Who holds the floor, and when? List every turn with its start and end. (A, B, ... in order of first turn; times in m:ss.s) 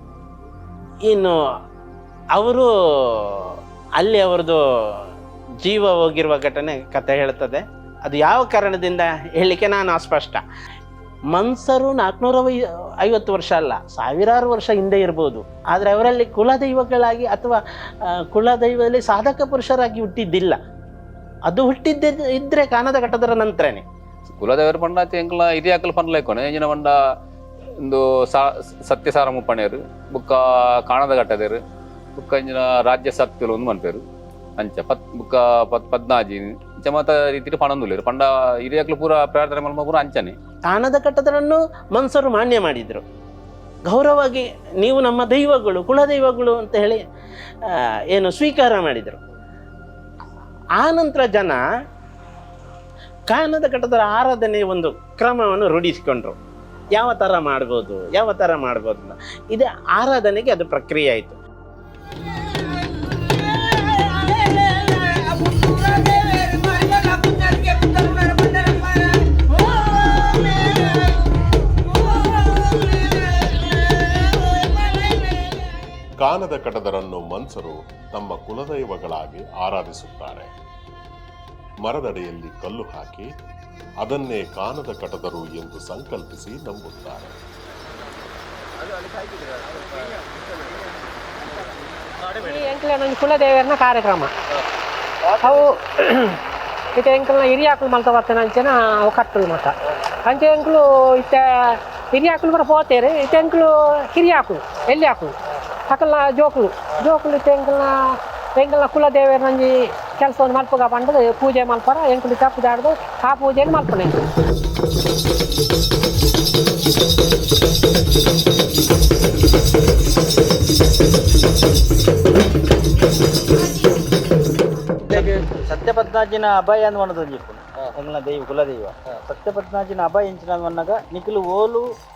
0:01.0-0:01.4 A
0:02.3-0:05.0 A
0:05.6-0:10.4 A
0:11.3-0:17.6 A
0:18.3-0:20.6 A
0:21.5-0:23.8 A
0:24.3-0:27.0 B
0:27.8-0:31.6 B
0:32.2-0:34.0 B
0:34.6-0:40.4 B
0:40.7-0:43.0 A
0:43.9-0:47.0 A
0:47.6-0:49.2 A
0:50.8-0:51.6 A
0:53.3-0:56.4 A
0:56.9-1:01.4 A
1:16.2-1:20.5 C
1:21.8-1:23.3 C
1:24.0-1:27.3 C
1:32.3-1:34.3 D
1:35.4-1:36.4 D
1:37.0-1:39.7 D
1:40.2-1:45.4 D
1:45.9-1:54.2 D
2:05.1-2:11.8 E